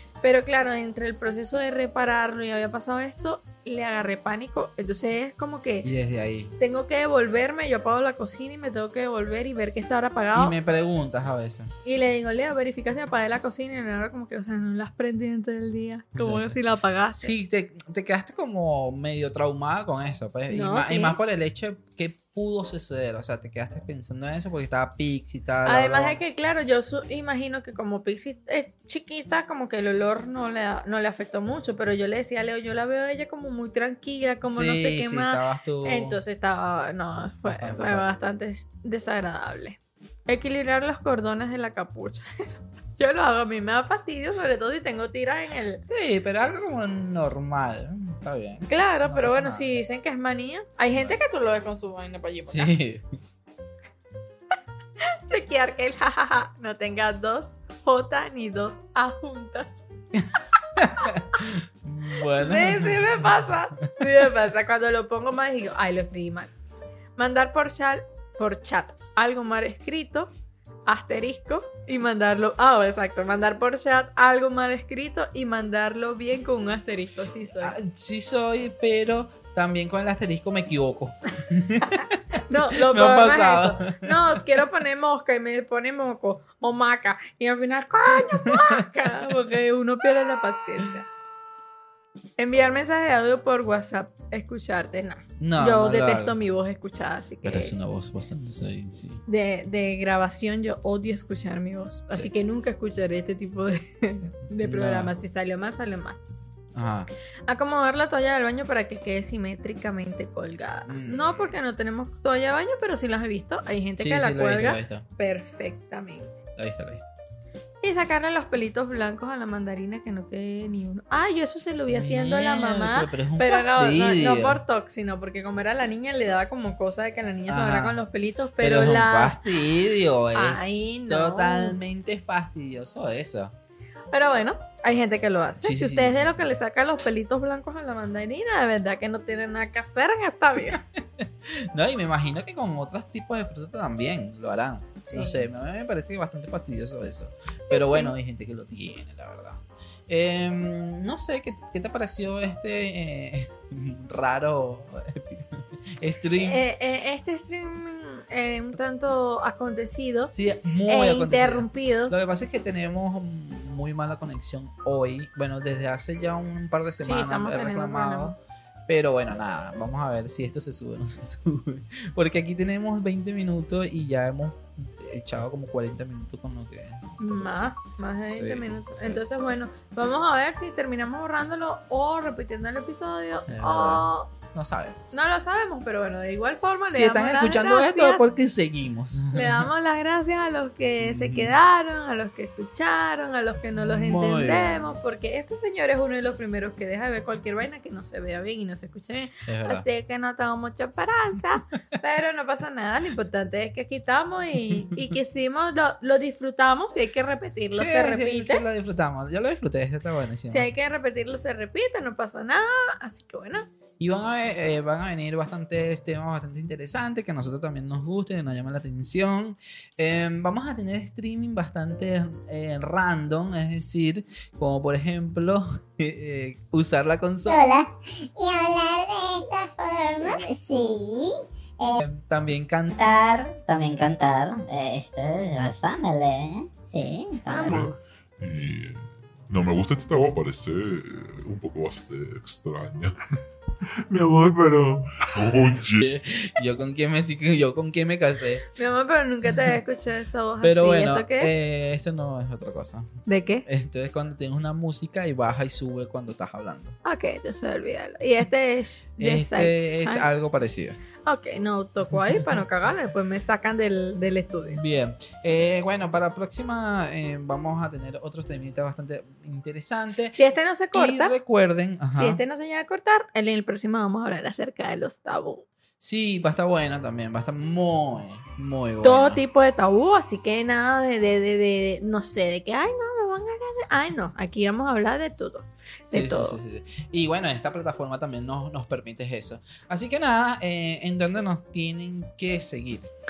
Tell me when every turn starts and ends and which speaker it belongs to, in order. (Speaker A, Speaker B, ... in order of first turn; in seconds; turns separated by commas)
Speaker A: 0.2-5.9, Speaker B: 5.8-6.5, Speaker A: 6.6-10.6, Speaker B: 10.3-11.7, Speaker A: 11.8-17.3, Speaker B: 16.2-16.6, Speaker B: 17.2-26.2, Speaker A: 20.5-21.2, Speaker A: 25.6-45.8, Speaker B: 34.5-36.2, Speaker B: 37.5-38.0, Speaker B: 45.9-49.7, Speaker A: 48.7-52.7, Speaker B: 50.9-51.2, Speaker B: 52.5-53.1, Speaker A: 55.0-59.9, Speaker B: 60.1-64.1, Speaker A: 62.3-66.5, Speaker A: 67.2-70.3, Speaker A: 70.9-77.8, Speaker B: 77.6-84.4, Speaker A: 81.8-91.1, Speaker B: 88.3-88.8, Speaker A: 92.4-97.8, Speaker B: 95.4-96.3, Speaker B: 97.4-99.2, Speaker A: 99.3-106.2, Speaker B: 104.6-105.1, Speaker B: 106.7-107.1, Speaker A: 107.5-116.3, Speaker B: 110.9-111.3, Speaker B: 114.0-115.1, Speaker B: 116.6-117.1, Speaker A: 117.8-129.4, Speaker B: 121.9-124.6, Speaker B: 127.5-128.0, Speaker B: 128.6-133.5, Speaker A: 130.3-131.8, Speaker A: 134.1-140.8, Speaker B: 135.6-136.2, Speaker B: 140.7-156.6, Speaker A: 145.1-145.5, Speaker A: 147.7-148.2, Speaker A: 156.4-160.3, Speaker B: 160.3-177.7, Speaker A: 160.9-162.1, Speaker A: 167.0-168.3, Speaker A: 177.2-184.3, Speaker B: 178.2-179.2, Speaker B: 183.5-185.2, Speaker A: 185.1-188.3, Speaker B: 186.9-189.7, Speaker A: 189.3-208.6, Speaker B: 191.0-191.6, Speaker B: 193.8-194.8, Speaker B: 199.5-199.8, Speaker B: 207.7-210.7, Speaker A: 210.5-213.7, Speaker B: 214.0-227.6, Speaker C: 227.5-232.0, Speaker B: 231.9-232.9, Speaker D: 232.9-237.8, Speaker E: 237.6-243.1, Speaker E: 245.2-246.1, Speaker B: 245.9-248.7, Speaker A: 248.8-251.5, Speaker B: 250.6-257.0, Speaker A: 253.3-253.7, Speaker A: 257.1-260.3, Speaker B: 259.2-261.0, Speaker A: 261.2-264.8, Speaker B: 264.7-270.4, Speaker A: 270.3-271.4, Speaker B: 270.9-272.4, Speaker A: 272.1-275.7, Speaker B: 276.0-279.4, Speaker A: 279.0-286.6, Speaker B: 286.1-293.1